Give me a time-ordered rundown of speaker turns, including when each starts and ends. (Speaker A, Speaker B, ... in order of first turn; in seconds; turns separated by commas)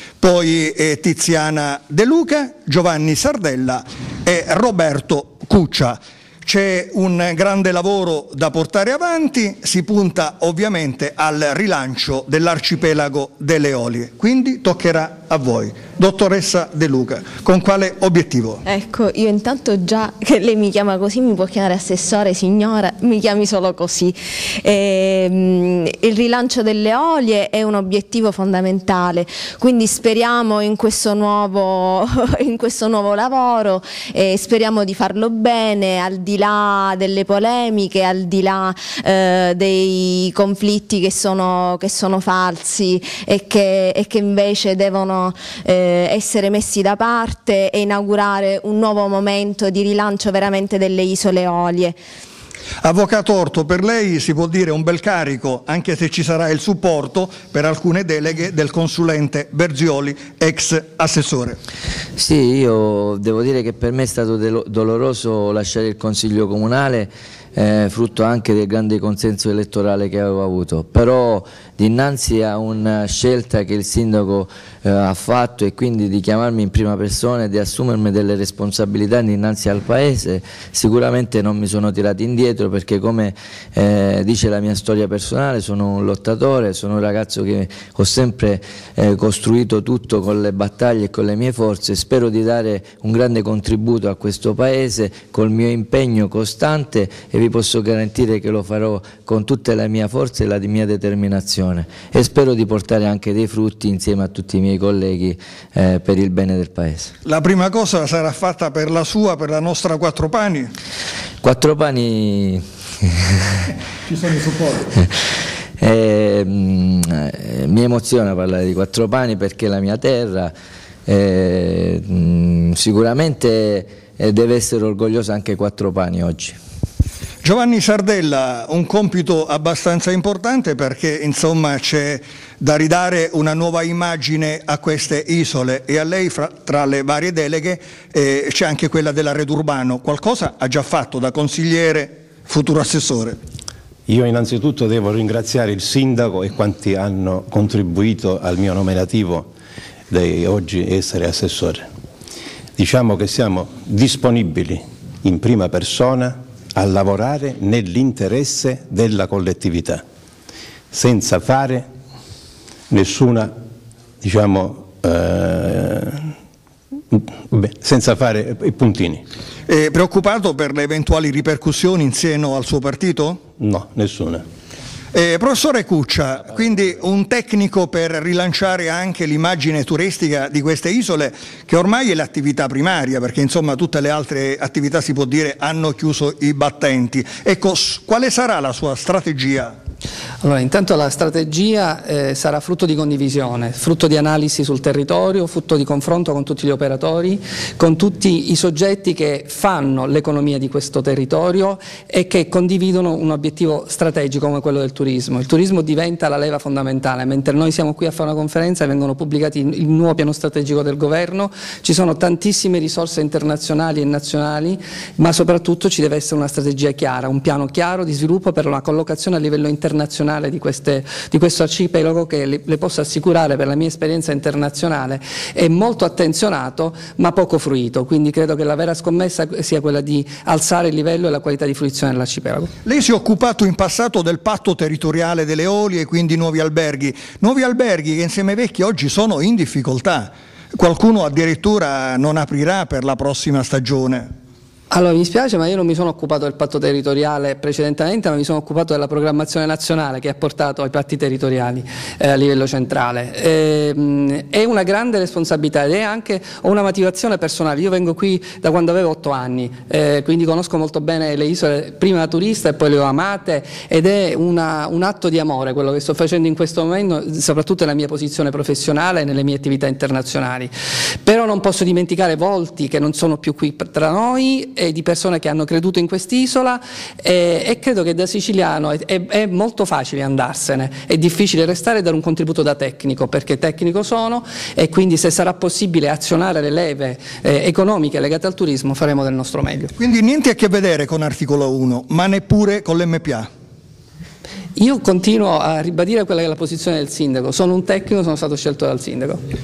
Speaker A: 0.2-18.6, Speaker B: 18.7-52.0, Speaker A: 52.8-61.6, Speaker C: 62.2-107.1, Speaker A: 107.2-110.7, Speaker C: 111.4-113.6, Speaker A: 114.2-114.8, Speaker C: 115.8-120.5, Speaker C: 121.1-126.6, Speaker A: 127.4-143.4, Speaker D: 144.1-149.5, Speaker D: 150.1-151.8, Speaker D: 152.8-160.0, Speaker D: 160.9-161.8, Speaker D: 162.9-163.5, Speaker D: 164.2-166.2, Speaker D: 167.1-169.2, Speaker A: 169.7-173.4, Speaker D: 173.6-174.4, Speaker A: 175.1-189.8, Speaker E: 190.4-232.7, Speaker A: 232.8-244.3, Speaker E: 244.9-270.7, Speaker E: 271.2-289.9, Speaker A: 290.0-293.5, Speaker E: 294.8-299.4